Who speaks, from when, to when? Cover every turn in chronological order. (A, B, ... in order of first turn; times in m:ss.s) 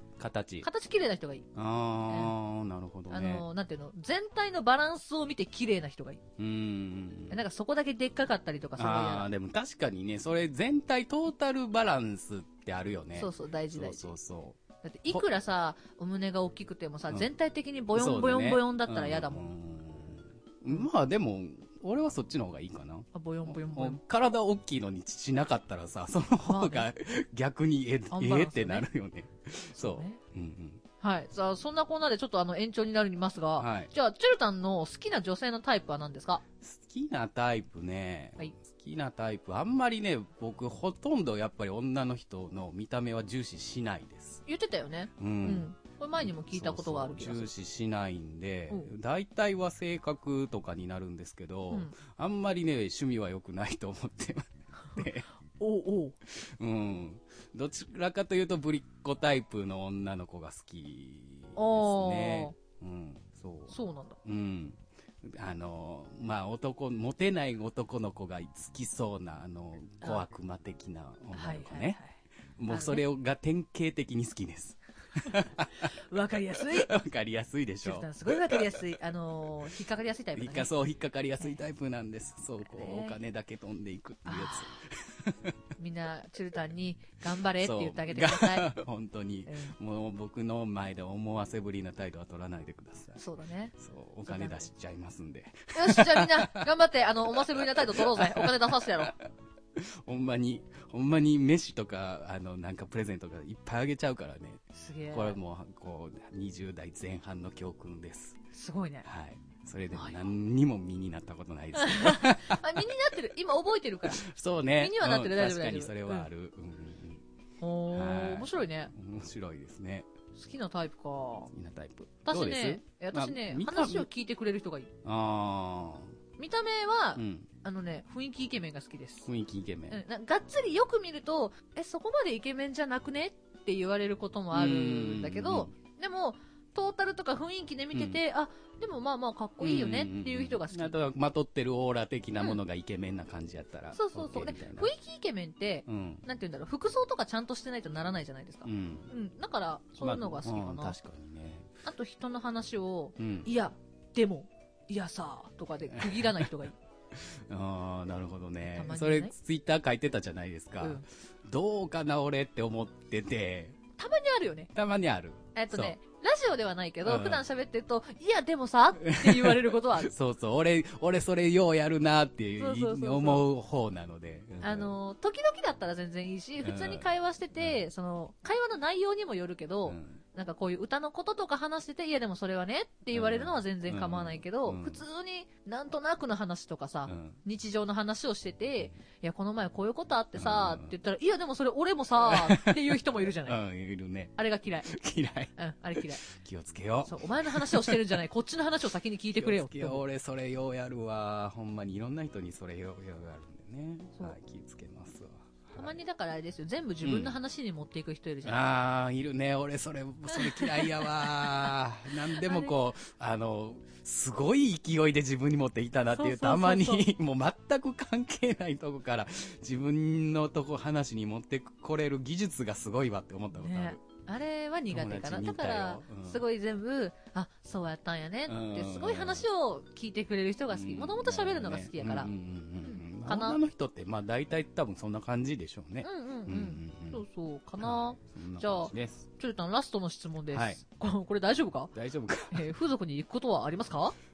0:00.2-0:00.7 A
0:00.6-0:01.5 B
0:01.6-0:03.4 A
0:02.1-0:02.3 B
0:03.1-0:06.2 B
0:06.4-0:07.4 A
0:07.3-0:09.3 B
0:08.8-0:14.6 A
0:13.1-0:14.2 B
0:14.8-0:19.5 B
0:17.9-0:30.8 A
0:23.1-0:24.0 B
0:26.4-0:26.9 B
0:28.1-0:28.9 B
0:29.7-0:30.2 B
0:31.0-0:36.4 B
0:33.6-0:33.9 A
0:36.6-0:44.4 A
0:44.4-0:47.5 B
0:45.2-0:45.7 A
0:46.2-0:55.3 A
0:55.6-0:56.1 B
0:56.3-1:03.7 A
1:01.6-1:02.6 B
1:03.7-1:04.2 B
1:04.2-1:12.0 A
1:11.3-1:12.2 B
1:12.6-1:15.9 A
1:12.7-1:13.0 B
1:16.1-1:16.9 B
1:16.7-1:18.9 A
1:17.8-1:20.7 B
1:20.4-1:25.6 A
1:22.6-1:23.2 B
1:24.3-1:24.8 B
1:25.8-1:28.7 B
1:27.6-1:33.2 A
1:29.4-1:29.8 B
1:33.2-1:33.7 B
1:33.8-1:36.6 A
1:34.3-1:34.6 B
1:35.7-1:39.1 B
1:37.5-1:39.1 A
1:39.7-1:48.4 A
1:44.8-1:45.4 B
1:48.5-1:49.1 B
1:49.0-1:52.6 A
1:51.7-1:54.2 B
1:54.1-1:57.2 A
1:54.8-1:56.3 B
1:57.6-1:58.9 B
1:57.9-2:00.1 A
2:00.3-2:01.5 B
2:01.5-2:04.1 A
2:02.3-2:04.9 B
2:05.0-2:06.1 A
2:06.4-2:09.3 B
2:07.2-2:07.5 A
2:09.3-2:10.0 A
2:09.9-2:21.0 B
2:14.5-2:15.7 A
2:17.9-2:18.2 A
2:19.6-2:24.9 A
2:23.9-2:31.0 B
2:25.9-2:26.2 A
2:28.6-2:29.1 A
2:30.0-2:31.7 A
2:31.8-2:36.7 B
2:33.2-2:33.5 A
2:35.9-2:36.5 A
2:37.2-2:43.8 A
2:38.7-2:39.3 B
2:44.0-2:44.7 B
2:44.7-2:46.0 A
2:45.6-2:50.1 B
2:47.0-2:47.4 A
2:49.1-2:55.0 A
2:52.6-2:53.4 B
2:54.6-3:13.6 B
2:56.6-2:57.1 A
2:59.9-3:00.2 A
3:03.1-3:05.0 A
3:07.1-3:07.4 A
3:10.4-3:10.9 A
3:12.2-3:18.2 A
3:14.4-3:14.9 B
3:15.6-3:16.2 B
3:17.0-3:20.0 B
3:19.4-3:25.9 A
3:25.7-3:28.6 B
3:27.0-3:27.4 A
3:28.4-3:44.0 A
3:30.3-3:31.7 B
3:32.4-3:32.7 B
3:36.2-3:37.0 B
3:43.5-3:52.3 B
3:44.9-3:46.4 A
3:48.5-3:49.4 A
3:50.7-3:57.2 A
3:52.8-3:53.6 B
3:56.0-4:01.9 B
3:57.8-3:59.3 A
4:00.5-4:00.8 A
4:01.9-4:02.7 A
4:02.5-4:04.1 B